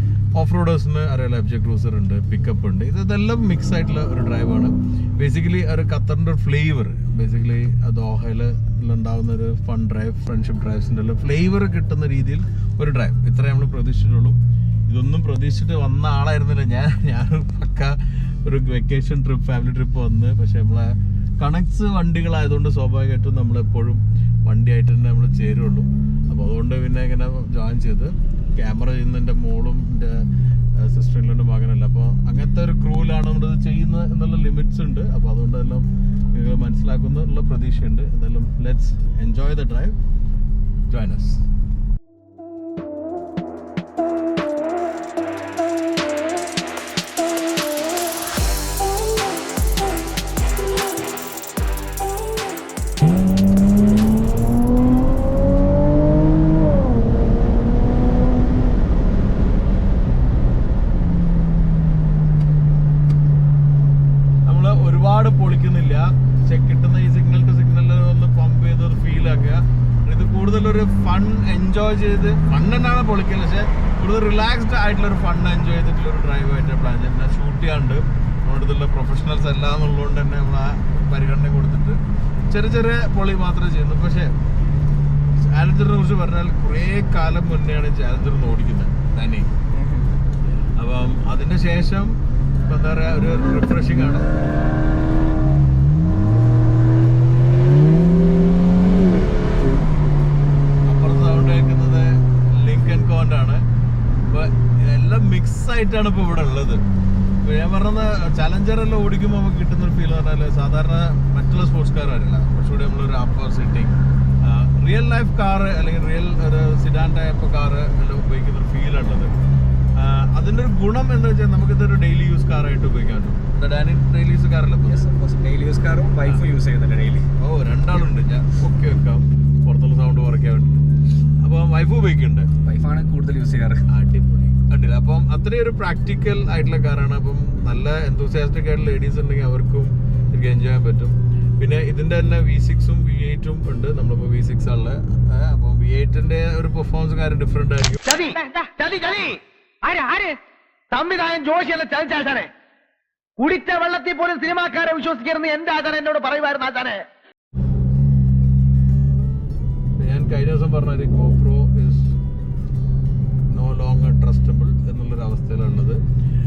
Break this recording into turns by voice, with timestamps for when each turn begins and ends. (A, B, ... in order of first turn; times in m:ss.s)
0:00.3-0:30.2 A
0:30.8-0:39.9 A
0:40.9-0:41.4 A
1:04.5-1:22.0 A
1:22.5-1:24.3 A
1:25.4-1:29.5 A
1:29.8-1:30.0 B
1:30.8-1:32.1 A
1:32.6-1:34.3 A
1:40.9-1:43.6 A
1:44.3-1:46.8 A
1:47.4-1:59.3 A
2:00.0-2:05.1 A
2:04.9-2:07.3 B
2:07.4-2:10.8 A
2:11.4-2:12.5 A
2:12.6-2:13.8 B
2:13.9-2:28.0 A
2:28.0-2:30.4 C
2:30.9-2:32.5 C
2:33.4-2:37.0 C
2:40.0-2:42.1 A
2:43.5-2:46.0 A